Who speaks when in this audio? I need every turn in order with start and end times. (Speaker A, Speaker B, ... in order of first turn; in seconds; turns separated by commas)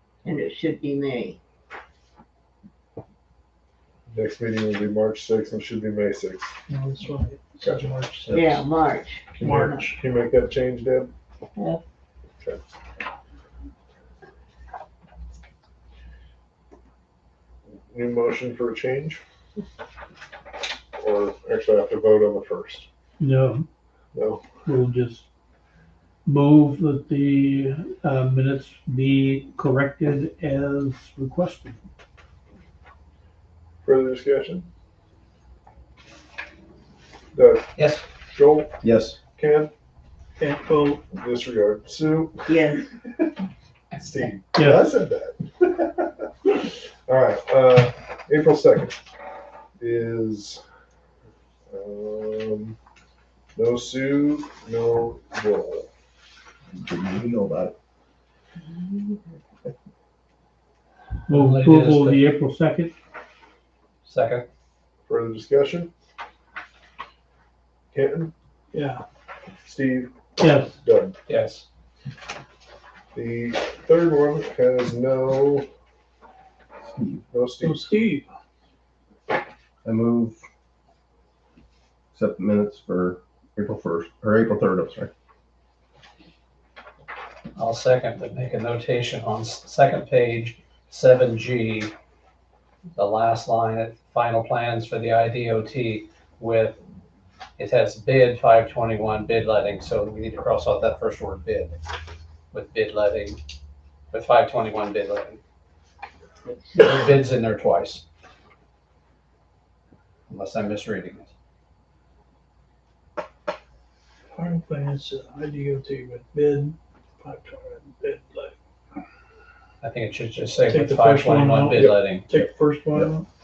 Speaker A: 0.2-1.4, Speaker B: 4.1-6.5, Speaker C: 6.7-8.3, Speaker B: 7.6-7.9, Speaker D: 8.3-8.6, Speaker A: 8.3-9.8, Speaker B: 9.4-11.1, Speaker C: 9.4-10.0, Speaker B: 17.9-19.2, Speaker B: 21.0-22.9, Speaker E: 23.2-23.6, Speaker B: 24.1-24.4, Speaker E: 24.6-25.3, Speaker E: 26.3-31.8, Speaker B: 33.8-34.7, Speaker B: 37.3-38.8, Speaker D: 37.8-38.0, Speaker F: 38.8-39.2, Speaker B: 39.4-39.7, Speaker C: 40.4-41.0, Speaker B: 41.1-42.6, Speaker A: 42.5-42.9, Speaker B: 43.9-49.0, Speaker E: 44.5-44.9, Speaker B: 49.8-50.6, Speaker B: 51.7-52.8, Speaker B: 53.5-55.9, Speaker F: 56.7-57.8, Speaker A: 58.6-59.4, Speaker E: 61.3-62.9, Speaker D: 61.3-62.2, Speaker D: 64.0-64.5, Speaker B: 65.1-65.9, Speaker B: 67.9-68.3, Speaker C: 68.7-69.0, Speaker B: 69.6-70.2, Speaker E: 70.4-70.8, Speaker B: 70.7-71.2, Speaker D: 71.3-71.7, Speaker B: 73.1-75.7, Speaker F: 76.8-77.2, Speaker B: 77.3-77.9, Speaker C: 77.6-78.3, Speaker F: 79.8-80.4, Speaker F: 82.1-85.1, Speaker D: 87.6-91.9, Speaker D: 93.0-96.8, Speaker D: 97.6-101.8, Speaker D: 102.5-103.4, Speaker D: 104.1-105.4, Speaker A: 106.4-107.0, Speaker D: 106.8-108.0, Speaker D: 110.3-111.3, Speaker C: 114.3-118.5, Speaker D: 119.8-122.3, Speaker C: 120.7-123.3, Speaker B: 121.8-122.2